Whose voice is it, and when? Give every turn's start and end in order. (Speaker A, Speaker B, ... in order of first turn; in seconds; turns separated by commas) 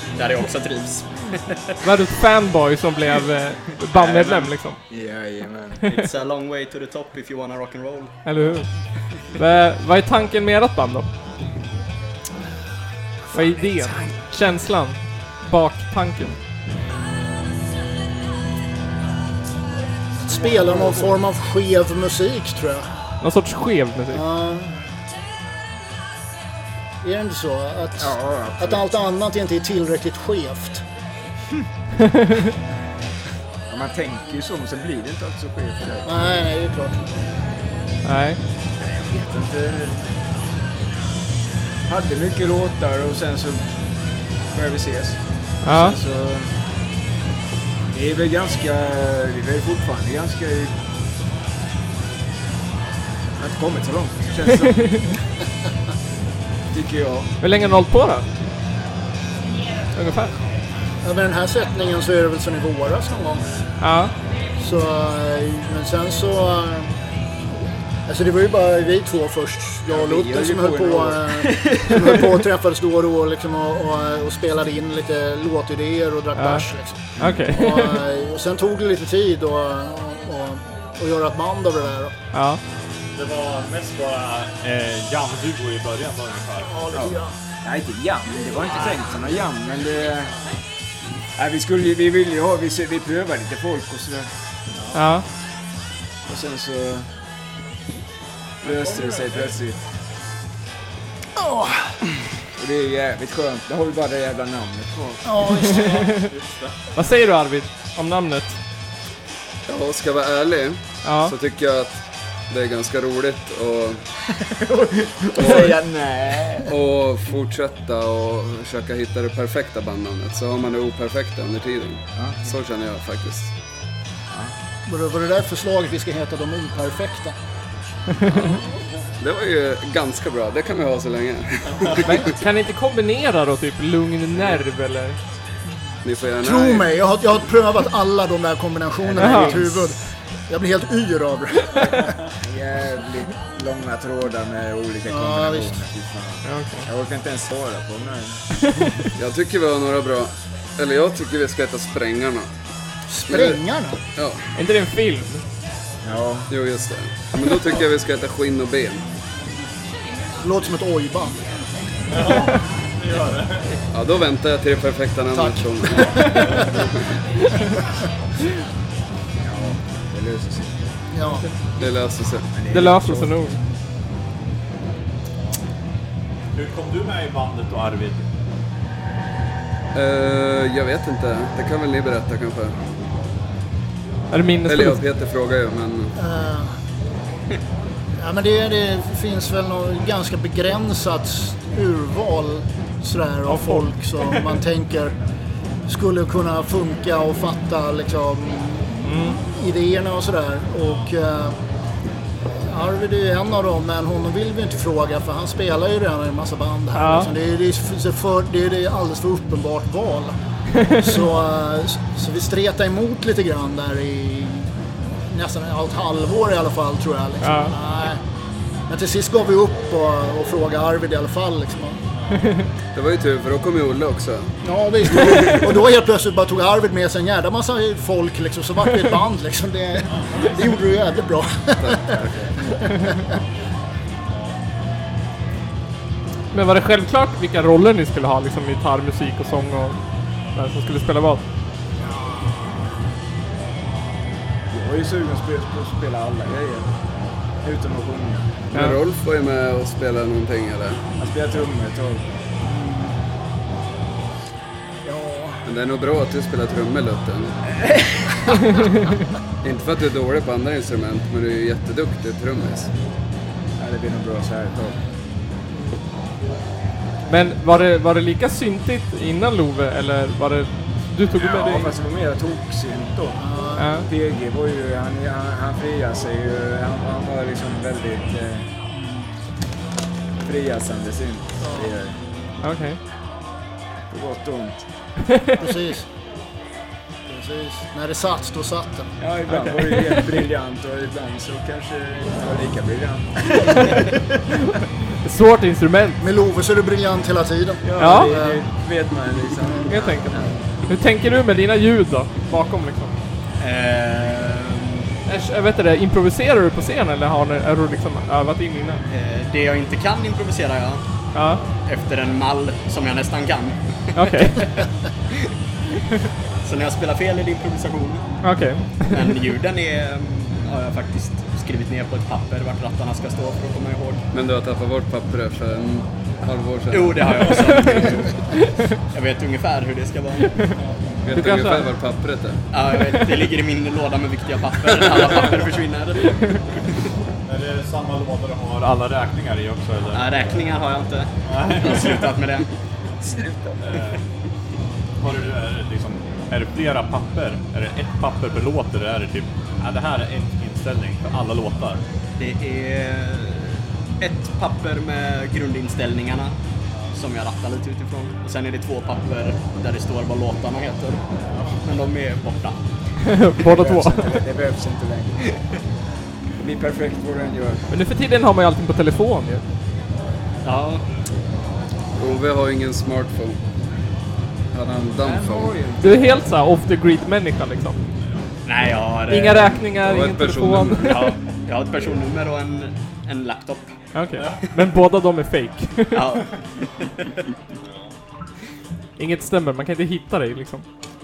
Speaker A: 0.1-1.7, Speaker B: 1.8-4.8, Speaker C: 4.0-5.9, Speaker A: 5.9-8.2, Speaker B: 8.2-8.7, Speaker B: 9.3-11.1, Speaker C: 13.3-14.2, Speaker B: 13.3-16.3, Speaker D: 20.2-22.9, Speaker C: 20.3-21.2, Speaker B: 23.2-24.2, Speaker D: 24.1-24.8, Speaker D: 27.0-30.8, Speaker C: 28.0-28.9, Speaker B: 32.1-32.3, Speaker C: 33.7-36.3, Speaker D: 36.0-37.0, Speaker B: 38.0-38.4, Speaker C: 38.8-40.0, Speaker C: 41.9-43.6, Speaker C: 44.5-46.5, Speaker B: 45.6-46.0, Speaker C: 47.9-50.7, Speaker C: 53.4-55.0, Speaker B: 54.6-55.1, Speaker C: 56.7-57.3, Speaker B: 57.4-58.3, Speaker B: 59.9-60.3, Speaker D: 61.0-63.6, Speaker B: 63.8-64.1, Speaker D: 64.6-66.9, Speaker D: 68.1-82.1, Speaker C: 69.9-71.7, Speaker B: 76.3-78.0, Speaker C: 77.2-77.5, Speaker B: 82.3-82.6, Speaker E: 83.1-86.8, Speaker D: 86.7-87.3, Speaker C: 86.9-90.4, Speaker C: 91.4-94.3, Speaker E: 94.8-95.0, Speaker B: 94.9-95.2, Speaker C: 96.3-97.1, Speaker C: 98.6-99.8, Speaker E: 98.6-99.5, Speaker D: 101.4-102.0, Speaker C: 102.6-105.2, Speaker D: 105.2-106.0, Speaker B: 105.7-106.2, Speaker E: 105.8-106.7, Speaker B: 106.9-108.6, Speaker F: 109.7-114.0, Speaker B: 111.0-111.3, Speaker C: 114.5-116.7, Speaker F: 115.3-115.7, Speaker F: 116.6-123.5, Speaker C: 122.2-122.4, Speaker D: 124.8-127.3, Speaker F: 128.3-128.6, Speaker F: 129.2-132.3, Speaker B: 132.0-135.2, Speaker F: 136.0-136.9, Speaker D: 136.4-140.0, Speaker C: 139.0-139.8, Speaker B: 139.2-139.6, Speaker D: 140.5-142.1, Speaker C: 142.4-148.4, Speaker D: 145.1-145.7, Speaker B: 146.4-146.9, Speaker F: 149.2-152.5, Speaker D: 153.1-154.0, Speaker F: 153.3-153.6, Speaker B: 154.6-155.4, Speaker C: 156.0-156.5, Speaker F: 156.5-159.0, Speaker D: 160.4-161.4, Speaker E: 162.1-163.7, Speaker F: 163.9-166.9, Speaker D: 165.3-166.9, Speaker C: 169.4-170.8, Speaker D: 171.1-171.4, Speaker F: 171.8-172.5, Speaker C: 172.5-173.1, Speaker B: 172.7-173.5, Speaker E: 176.5-178.3, Speaker F: 179.9-182.8, Speaker B: 184.3-185.0, Speaker F: 184.7-186.2, Speaker D: 186.2-186.7, Speaker D: 188.2-195.1, Speaker B: 193.5-193.9, Speaker D: 195.9-201.6, Speaker B: 199.0-199.4, Speaker D: 202.7-210.3, Speaker B: 206.9-207.3, Speaker B: 210.7-211.1, Speaker D: 210.9-214.7, Speaker D: 215.3-218.2, Speaker B: 217.4-217.7, Speaker D: 218.9-222.0, Speaker E: 222.1-222.5, Speaker F: 222.9-224.5, Speaker D: 224.6-233.2, Speaker F: 225.1-225.7, Speaker E: 230.1-230.8, Speaker F: 231.8-232.5, Speaker E: 234.3-234.6, Speaker B: 236.5-240.0, Speaker B: 240.5-241.4, Speaker C: 244.7-246.9, Speaker C: 247.6-248.6, Speaker B: 248.7-249.0, Speaker F: 248.7-251.0, Speaker C: 251.2-252.2, Speaker D: 252.6-253.2, Speaker D: 255.0-255.6, Speaker F: 255.6-257.5, Speaker C: 257.8-258.2, Speaker F: 259.6-262.9, Speaker C: 263.8-265.0, Speaker B: 267.3-271.9, Speaker C: 271.4-273.4, Speaker D: 273.4-274.0, Speaker B: 273.8-274.1, Speaker C: 274.0-278.7, Speaker D: 278.9-279.3, Speaker C: 280.4-282.1, Speaker D: 281.6-281.9, Speaker B: 282.6-283.0, Speaker C: 284.1-284.8, Speaker B: 285.3-285.6, Speaker D: 285.6-286.1, Speaker D: 287.3-289.1, Speaker C: 289.2-294.0, Speaker B: 289.5-290.2, Speaker B: 295.2-296.2, Speaker D: 296.2-298.6, Speaker C: 297.8-300.6, Speaker B: 298.0-298.4, Speaker B: 299.9-303.1, Speaker A: 303.6-305.1, Speaker B: 305.2-309.0, Speaker A: 309.1-311.0, Speaker B: 311.3-311.6, Speaker A: 311.8-313.8, Speaker B: 314.1-314.6, Speaker A: 314.3-314.7, Speaker A: 316.6-318.2, Speaker B: 318.4-319.3, Speaker A: 319.1-324.2, Speaker F: 324.3-328.1, Speaker A: 326.9-330.6, Speaker F: 331.2-332.6, Speaker B: 331.3-331.9, Speaker A: 332.7-336.5, Speaker E: 337.4-340.3, Speaker A: 340.1-342.7, Speaker E: 341.4-342.4, Speaker E: 343.8-344.2, Speaker E: 345.2-352.0, Speaker A: 352.4-356.5, Speaker A: 357.1-361.2, Speaker E: 361.4-361.8, Speaker A: 361.8-362.8, Speaker B: 363.2-364.4, Speaker C: 363.6-365.4, Speaker C: 366.6-367.8, Speaker B: 367.9-369.6, Speaker A: 370.6-371.0, Speaker F: 372.2-373.6, Speaker F: 374.7-375.8, Speaker C: 375.2-376.4, Speaker B: 376.0-378.0, Speaker A: 378.6-379.8, Speaker B: 379.3-381.3, Speaker F: 380.0-381.3, Speaker A: 381.0-383.9, Speaker B: 384.1-386.3, Speaker E: 384.4-384.6, Speaker A: 386.1-387.1, Speaker E: 387.8-388.1, Speaker B: 389.2-390.8